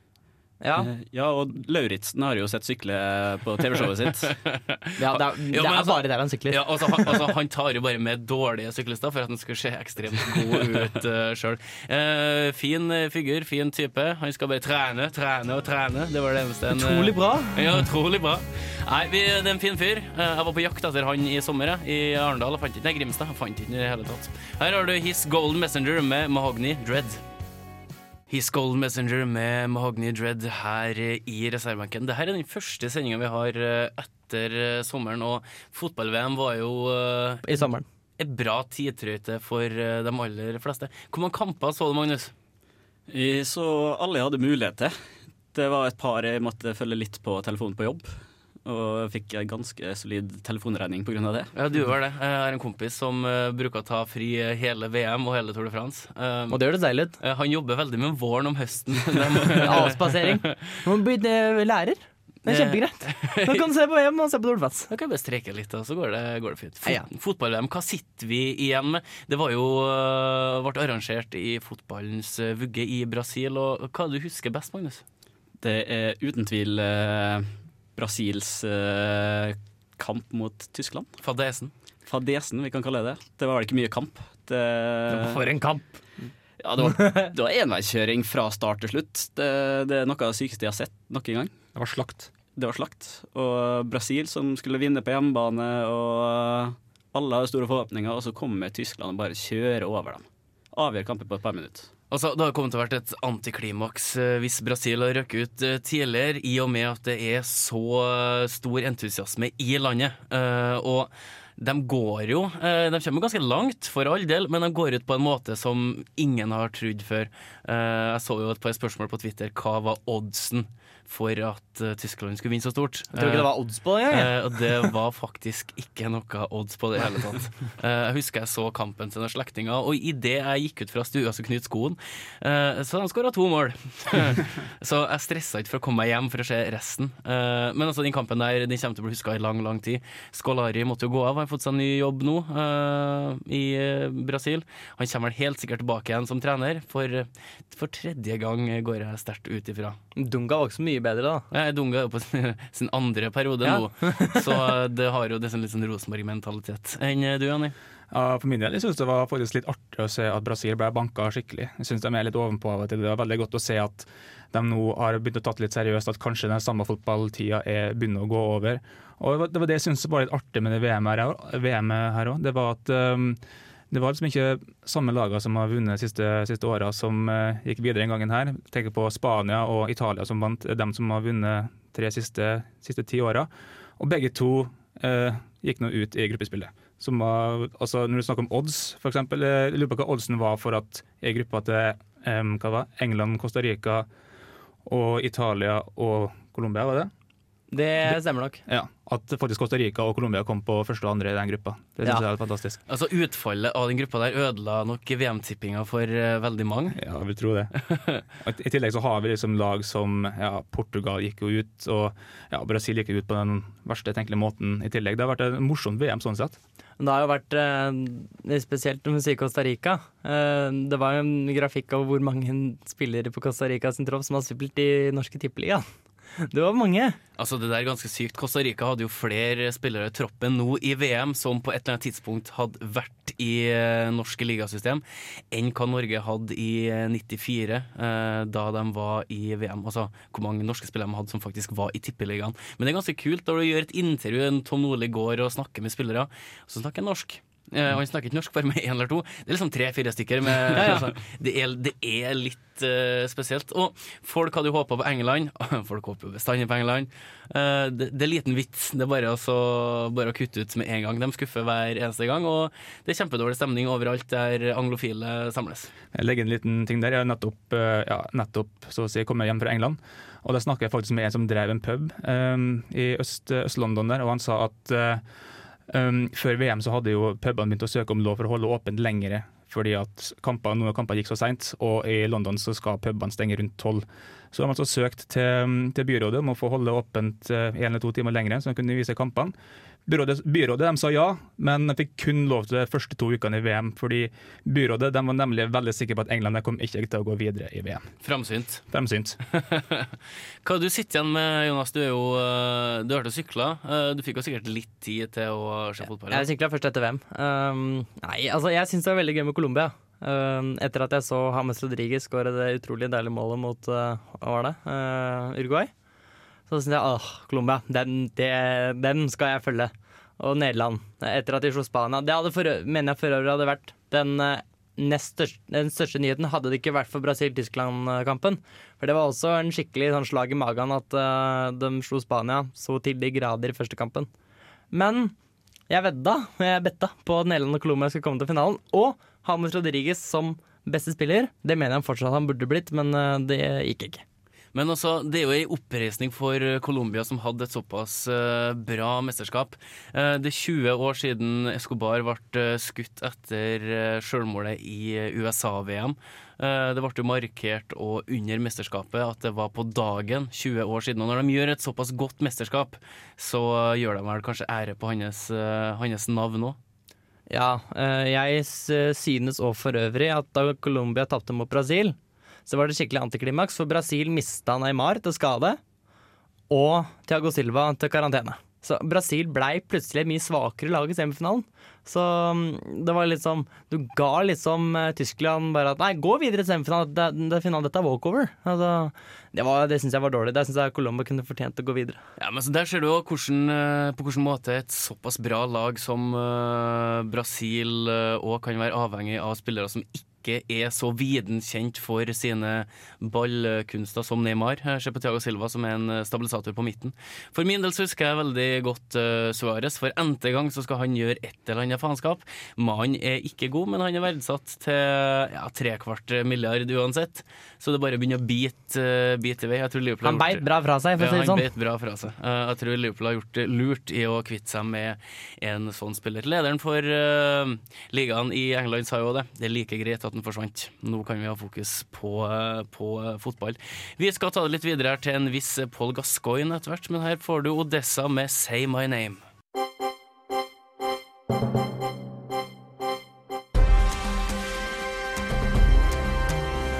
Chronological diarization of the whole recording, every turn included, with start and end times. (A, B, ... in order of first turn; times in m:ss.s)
0:00.6-0:00.9 A
0:00.8-0:04.3 B
0:04.2-0:27.2 C
0:05.0-0:07.2 A
0:16.7-0:17.8 A
0:28.3-0:37.7 C
0:37.4-0:37.8 A
0:38.2-0:42.3 C
0:43.1-0:44.9 B
0:45.5-0:48.1 B
0:48.6-0:51.5 B
0:51.5-0:56.6 C
0:56.5-0:57.2 A
0:57.2-1:00.6 C
0:59.6-1:04.9 A
1:02.5-1:03.6 C
1:04.9-1:15.0 C
1:15.6-1:21.1 B
1:21.2-1:21.7 C
1:22.0-1:25.4 B
1:25.1-1:26.0 A
1:26.6-1:31.5 B
1:31.7-1:32.3 D
1:32.6-1:41.9 B
1:42.1-2:03.5 C
2:03.1-2:04.3 A
2:04.1-2:30.0 C
2:30.2-2:31.4 A
2:31.5-2:37.7 C
2:33.6-2:34.4 A
2:38.1-3:14.1 D
3:14.8-3:17.1 D
3:17.7-3:18.6 A
3:18.0-3:22.8 D
3:22.9-3:27.0 C
3:27.0-3:27.7 D
3:27.9-3:28.2 C
3:28.4-3:36.6 D
3:37.0-3:45.8 A
3:46.4-3:47.2 A
3:47.4-4:25.9 C
4:10.7-4:11.2 A
4:26.1-4:35.2 D
4:35.9-4:49.5 D
4:50.1-4:58.1 D
4:58.2-4:58.8 C
4:58.9-4:59.4 D
4:59.5-5:06.5 C
5:06.3-5:15.9 A
5:16.7-5:34.3 A
5:34.9-5:35.3 A
5:35.9-5:44.2 A
5:44.7-6:06.8 C
6:07.5-6:15.8 A
6:16.7-6:32.2 A
6:32.4-7:00.6 C
7:00.2-7:01.6 A
7:01.2-7:19.4 C